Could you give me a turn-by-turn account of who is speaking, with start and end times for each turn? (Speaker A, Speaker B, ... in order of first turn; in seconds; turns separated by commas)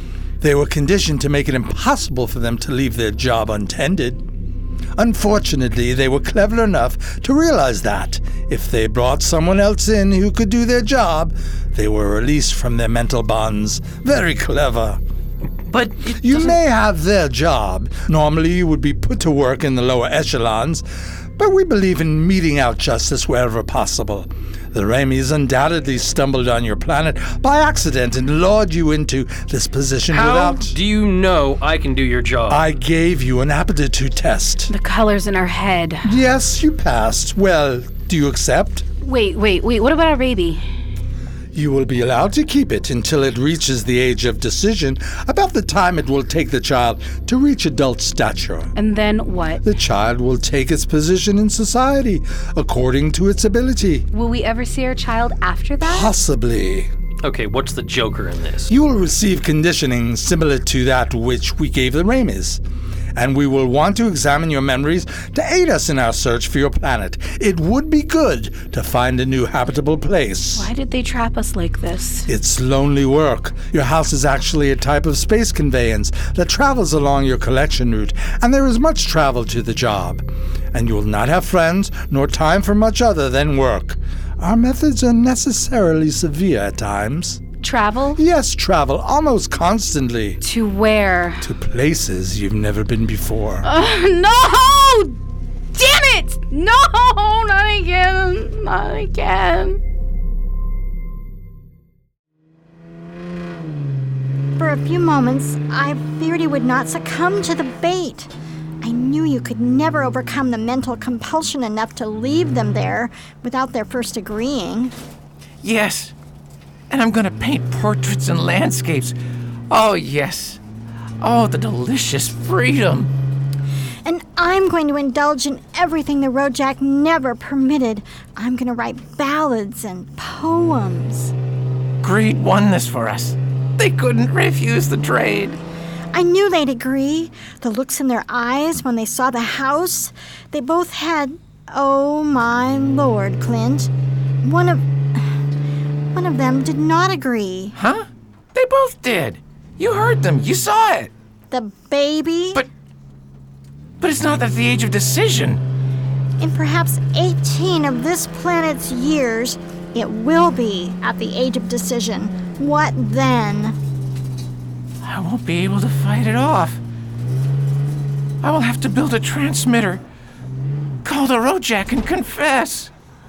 Speaker A: 0.4-4.2, Speaker A: 5.0-15.0, Speaker B: 15.6-16.6, Speaker A: 16.0-20.8, Speaker A: 21.4-30.7, Speaker B: 30.1-32.7, Speaker A: 32.5-34.7, Speaker C: 34.7-36.1, Speaker A: 36.0-38.8, Speaker C: 39.0-40.6, Speaker A: 41.5-48.7, Speaker C: 48.8-49.6, Speaker A: 49.6-54.1, Speaker C: 54.1-56.1, Speaker A: 55.8-56.9, Speaker B: 57.2-58.7, Speaker A: 58.7-62.6, Speaker A: 63.1-70.7, Speaker C: 70.5-72.3, Speaker A: 72.3-87.4, Speaker C: 87.6-88.2, Speaker A: 88.2-90.4, Speaker C: 90.4-91.5, Speaker A: 91.4-93.7, Speaker C: 93.6-95.2, Speaker C: 95.7-99.8, Speaker D: 104.6-114.9, Speaker E: 115.6-116.1, Speaker E: 116.9-119.2, Speaker E: 119.7-120.6, Speaker E: 121.2-123.1, Speaker D: 124.0-131.3, Speaker E: 132.0-135.6, Speaker D: 136.1-143.9, Speaker D: 144.4-145.3, Speaker D: 146.1-147.8, Speaker E: 147.7-151.1, Speaker D: 151.5-152.6, Speaker E: 154.0-155.6, Speaker D: 156.4-163.8, Speaker E: 165.0-166.8, Speaker E: 168.4-170.0, Speaker E: 171.0-172.9